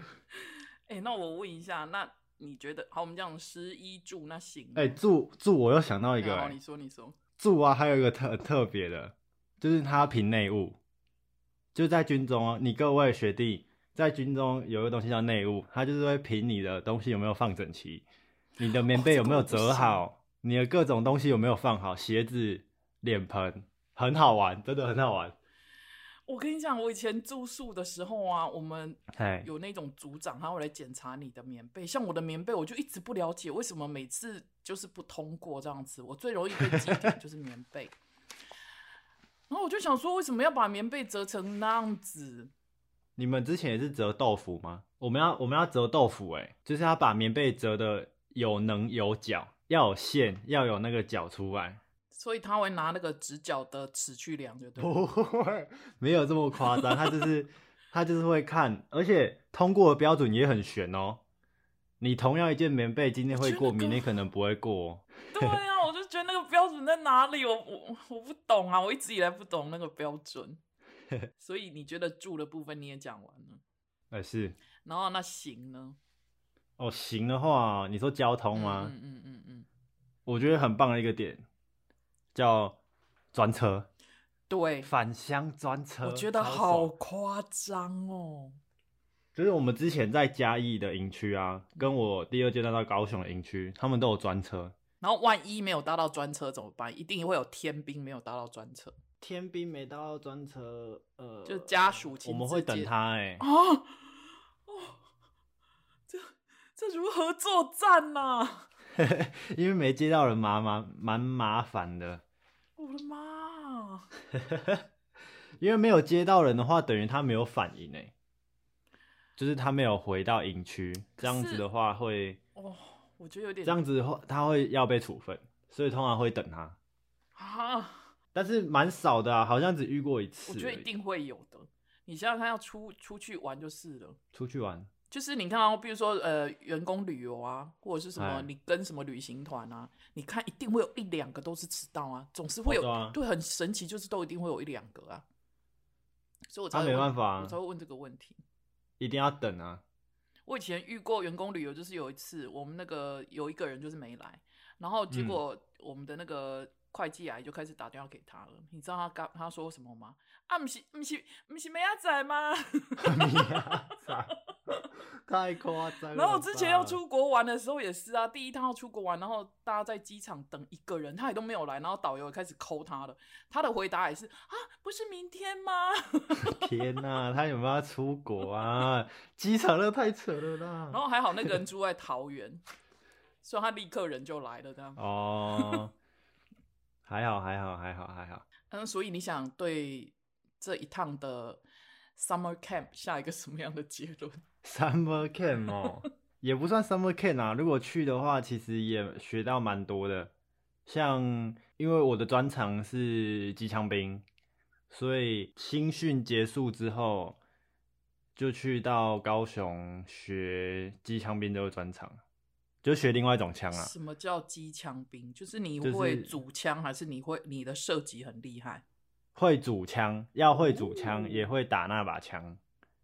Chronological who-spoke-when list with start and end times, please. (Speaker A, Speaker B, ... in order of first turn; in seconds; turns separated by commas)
Speaker A: 0.9-5.0, Speaker B: 4.7-6.5, Speaker A: 6.2-7.2, Speaker B: 7.4-10.8, Speaker B: 11.7-18.1, Speaker B: 18.6-25.4, Speaker A: 18.9-20.0, Speaker A: 26.3-38.0, Speaker B: 29.1-29.5, Speaker B: 36.7-37.0, Speaker A: 39.5-42.5, Speaker B: 43.1-51.8, Speaker A: 52.1-55.0, Speaker B: 54.8-61.2, Speaker A: 56.7-57.1, Speaker B: 62.0-65.6, Speaker A: 63.3-64.0, Speaker A: 65.3-70.6, Speaker A: 71.4-73.6, Speaker B: 74.1-74.6, Speaker A: 74.8-76.0, Speaker B: 76.8-78.9, Speaker A: 78.5-79.7, Speaker B: 80.2-81.4, Speaker B: 82.3-82.8, Speaker B: 83.3-83.9, Speaker A: 84.5-84.9, Speaker B: 84.8-86.9, Speaker A: 86.0-88.6, Speaker B: 89.3-94.7, Speaker A: 95.0-98.9, Speaker B: 99.2-103.4, Speaker A: 101.4-104.0, Speaker A: 104.7-105.0, Speaker A: 106.1-108.7, Speaker B: 109.0-112.2, Speaker A: 112.8-114.1, Speaker B: 114.3-114.8, Speaker B: 115.6-118.1, Speaker B: 119.4-122.4, Speaker A: 121.2-121.6, Speaker A: 122.5-123.8, Speaker B: 123.6-126.8, Speaker A: 127.3-128.1, Speaker B: 128.3-130.9, Speaker A: 130.5-134.2, Speaker B: 134.3-134.9, Speaker A: 135.1-145.2, Speaker B: 138.2-138.5, Speaker B: 142.7-143.2, Speaker A: 146.5-148.4, Speaker B: 146.7-147.6, Speaker B: 149.0-149.8, Speaker A: 150.5-164.1, Speaker B: 155.1-155.4, Speaker B: 163.0-164.3, Speaker B: 165.2-167.0, Speaker A: 166.1-176.7, Speaker B: 176.4-181.5, Speaker A: 180.9-182.6, Speaker A: 183.4-185.8, Speaker B: 185.0-185.9, Speaker B: 187.1-188.4, Speaker A: 188.7-191.6, Speaker A: 192.2-194.4, Speaker B: 194.6-200.3, Speaker B: 200.8-204.2, Speaker B: 204.9-207.4, Speaker B: 208.3-212.2, Speaker B: 212.8-213.9, Speaker A: 213.7-218.8, Speaker B: 215.8-216.3, Speaker B: 219.3-222.6, Speaker A: 220.5-221.5